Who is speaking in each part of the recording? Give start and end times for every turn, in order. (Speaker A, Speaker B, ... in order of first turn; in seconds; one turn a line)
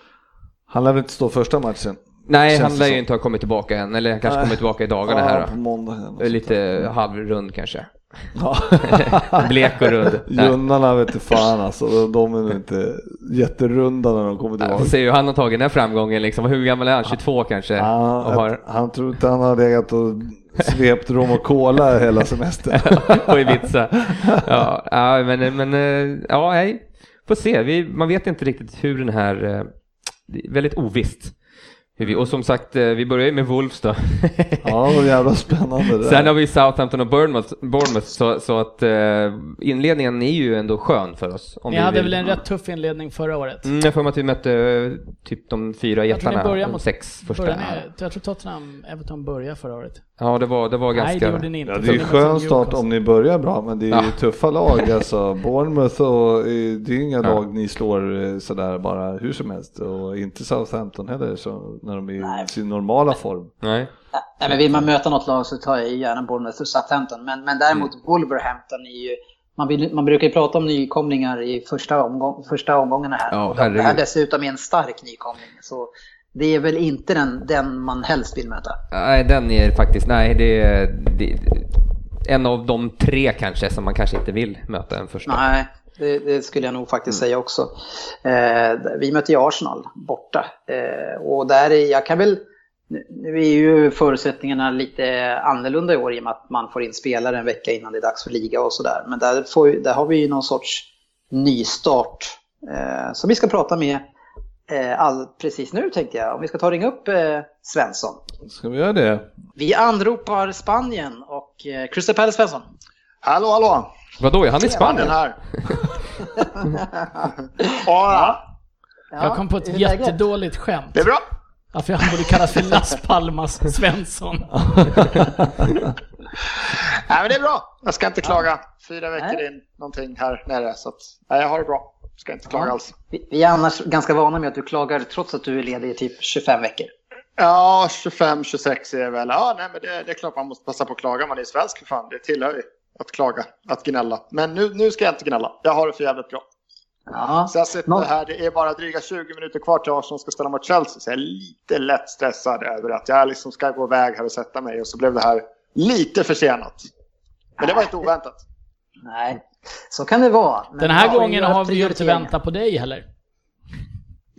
Speaker A: 0.7-3.0
Speaker B: 2.3-5.6
Speaker A: 4.3-6.9
Speaker B: 6.2-8.3
Speaker A: 8.4-9.4
Speaker B: 8.9-10.5
Speaker A: 10.2-14.9
Speaker B: 14.6-18.6
Speaker A: 17.8-23.6
Speaker B: 22.7-29.7
Speaker B: 30.3-31.4
Speaker B: 32.0-35.0
Speaker A: 34.6-36.3
Speaker B: 36.0-42.4
Speaker C: 41.7-43.7
Speaker B: 43.6-47.9
Speaker C: 46.1-50.0
Speaker B: 50.2-52.0
Speaker C: 50.9-52.8
Speaker A: 51.6-63.5
Speaker B: 53.9-54.2
Speaker D: 62.2-62.5
Speaker B: 63.6-63.9
Speaker D: 64.1-78.8
Speaker B: 73.3-74.0
Speaker B: 78.9-85.4
Speaker D: 85.3-87.7
Speaker D: 88.2-104.0
Speaker D: 104.7-108.2
Speaker A: 108.4-109.3
Speaker D: 109.6-112.7
Speaker E: 113.2-113.9
Speaker B: 114.2-115.8
Speaker D: 114.7-115.1
Speaker E: 114.9-115.4
Speaker D: 116.5-117.3
Speaker E: 117.8-118.4
Speaker D: 119.1-120.2
Speaker C: 119.2-121.1
Speaker E: 120.9-121.2
Speaker C: 121.7-124.5
Speaker A: 124.6-125.6
Speaker E: 127.1-132.9
Speaker D: 132.5-136.9
Speaker E: 137.4-146.4
Speaker D: 147.1-148.1
Speaker E: 147.5-156.9
Speaker E: 157.6-158.4
Speaker D: 159.1-162.3
Speaker C: 160.8-163.1